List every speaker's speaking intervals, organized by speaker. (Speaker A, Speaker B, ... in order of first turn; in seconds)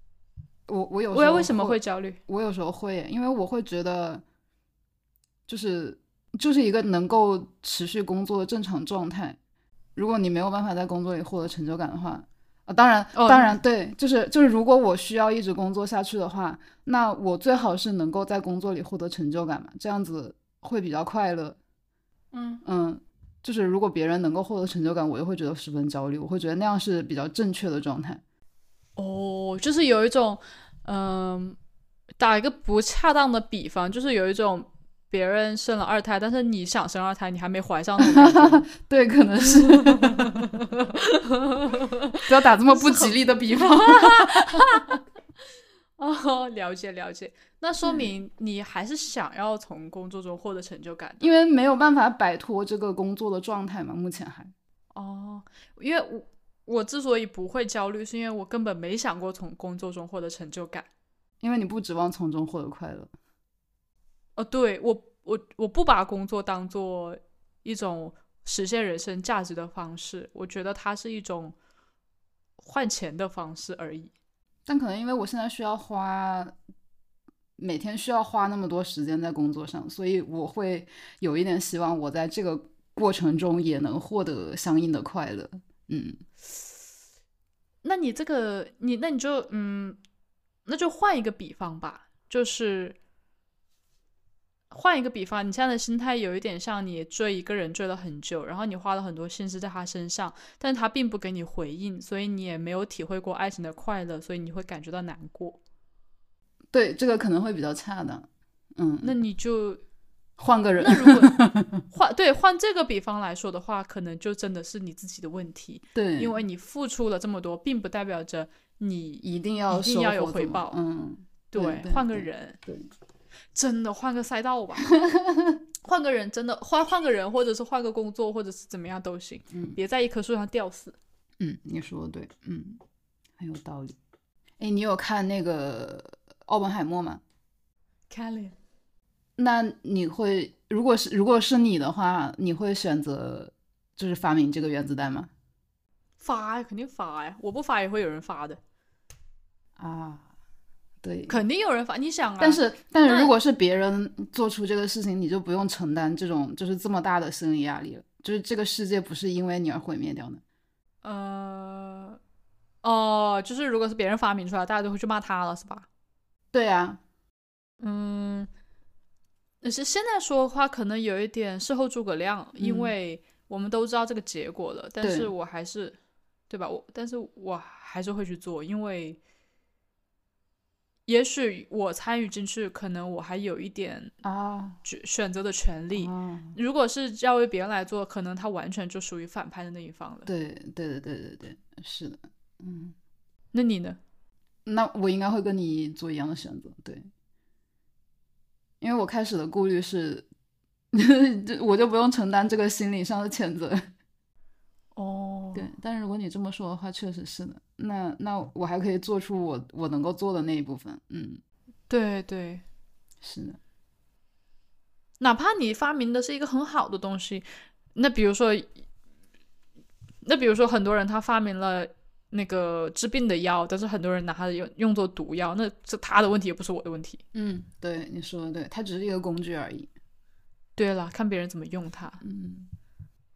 Speaker A: 0.7-4.2, 5.5-9.4, 9.9-21.6, 22.6-28.2, 38.0-40.5, 42.3-45.0, 51.2-54.5, 61.4-63.1, 74.7-76.5, 77.6-86.2, 106.7-109.2, 110.4-111.8, 115.9-116.4, 119.2-122.9, 124.9-125.6, 129.5-129.8, 131.4-132.8, 133.4-133.9, 134.6-137.2, 139.4-145.3, 149.8-150.3, 151.0-151.4, 152.4-160.4, 166.5-167.0, 172.6-172.9, 175.0-175.3, 184.2-184.8, 185.9-186.6, 190.2-192.9, 194.7-197.1, 198.8-200.2, 200.9-203.8, 205.5-211.4, 213.2-213.6, 227.3-229.9, 232.2-232.7
Speaker B: 1.1-2.2, 13.1-13.5, 22.3-22.6, 29.0-31.6, 32.2-38.6, 39.6-45.0, 46.0-51.3, 54.9-60.9, 64.3-71.5, 72.6-74.1, 87.8-90.0, 90.7-93.0, 94.7-105.6, 109.0-109.8, 110.8-120.8, 121.5-122.6, 123.5-124.9, 125.8-130.9, 138.1-138.6, 146.2-148.6, 151.3-153.3, 161.0-162.2, 162.8-165.9, 167.8-168.5, 169.6-175.9, 176.5-179.2, 181.1-184.1, 184.8-190.3, 193.5-194.0, 204.9-205.7, 211.9-212.6, 215.2-218.7, 220.2-227.2, 230.8-232.2